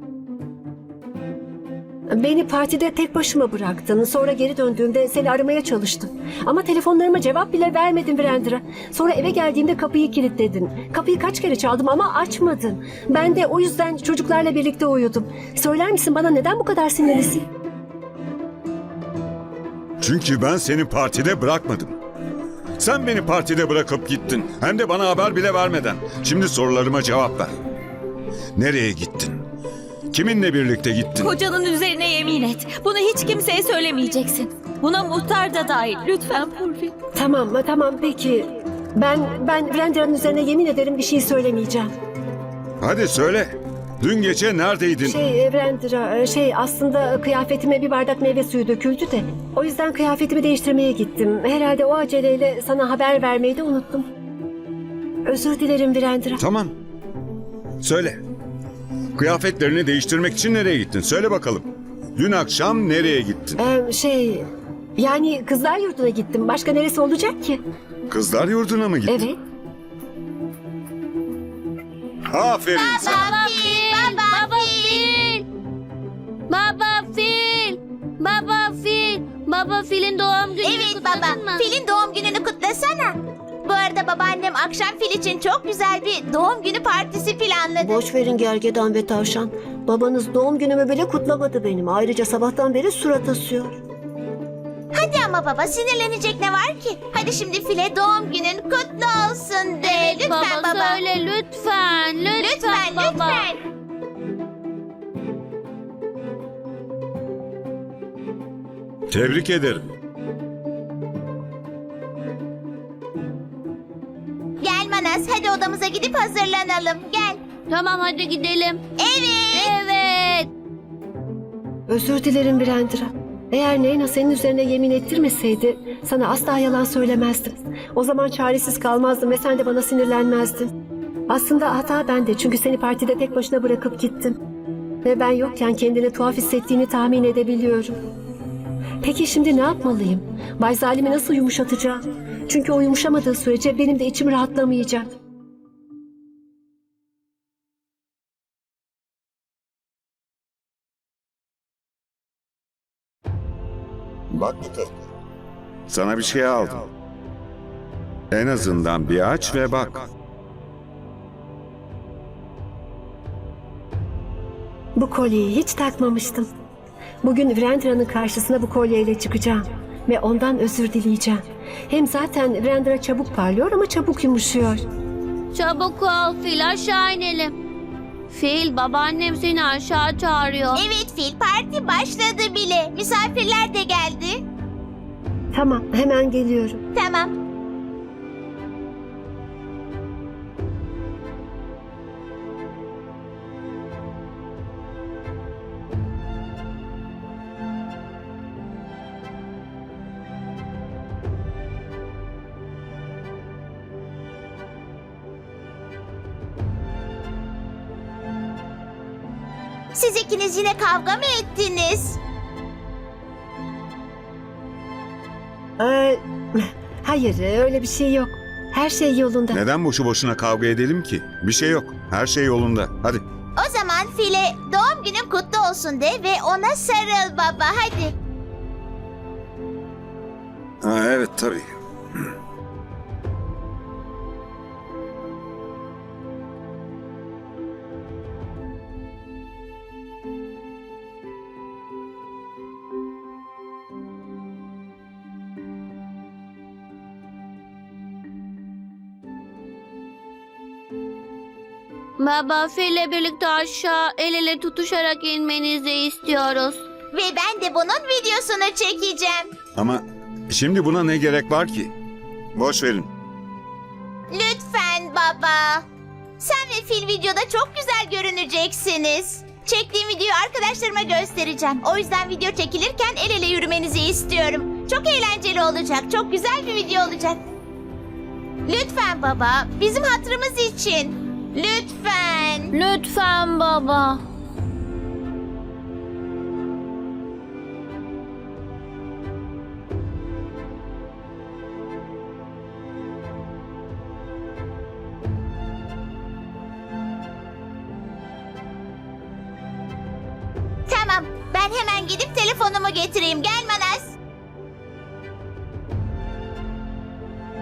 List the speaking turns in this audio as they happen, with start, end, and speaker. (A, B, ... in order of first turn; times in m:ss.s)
0:02.1-0:17.4 A
0:20.0-0:22.0 B
0:22.8-0:27.5 B
0:28.6-0:29.4 B
0:30.1-0:31.3 B
0:31.2-0:36.9 C
0:37.2-0:41.9 A
0:42.8-0:45.2 B
0:45.0-0:54.1 A
0:55.2-0:56.4 A
0:56.4-0:56.7 B
0:57.8-0:58.2 B
0:59.2-1:03.6 B
1:03.6-1:04.5 A
1:05.0-1:07.6 A
1:08.1-1:09.2 B
1:09.1-1:09.4 A
1:12.3-1:13.2 B
1:12.8-1:15.2 D
1:12.9-1:15.5 E
1:16.5-1:21.7 E
1:20.6-1:28.0 D
1:27.8-1:33.8 A
1:34.9-1:41.0 D
1:39.8-1:43.5 E
1:42.4-1:43.5 D
1:49.1-1:49.8 B
1:54.6-1:57.4 D
1:57.7-1:58.8 E
1:59.0-1:59.8 D
1:59.5-2:00.5 E
2:01.9-2:10.7 A
2:11.3-2:14.4 A
2:15.0-2:18.0 A
2:19.0-2:25.1 A
2:34.3-2:34.9 B
2:35.9-2:36.9 B
2:38.3-2:40.1 B
2:45.0-2:46.5 A
2:47.2-2:54.8 A
2:55.5-2:57.6 E
2:58.3-3:00.8 E
3:00.8-3:04.4 D
3:05.5-3:06.8 A
3:07.0-3:07.4 D
3:30.0-3:32.2 D
3:35.8-3:39.6 A
3:39.5-3:43.2 B
3:43.6-3:48.1 D
3:50.8-3:51.7 B
4:12.2-4:16.8 E
4:17.1-4:19.5 D
4:19.8-4:21.9 B
4:22.6-4:23.1 B
4:24.3-4:25.8 D
4:26.4-4:37.4 D
4:38.7-4:42.7 D
4:42.7-4:44.2 E
5:00.9-5:04.2 D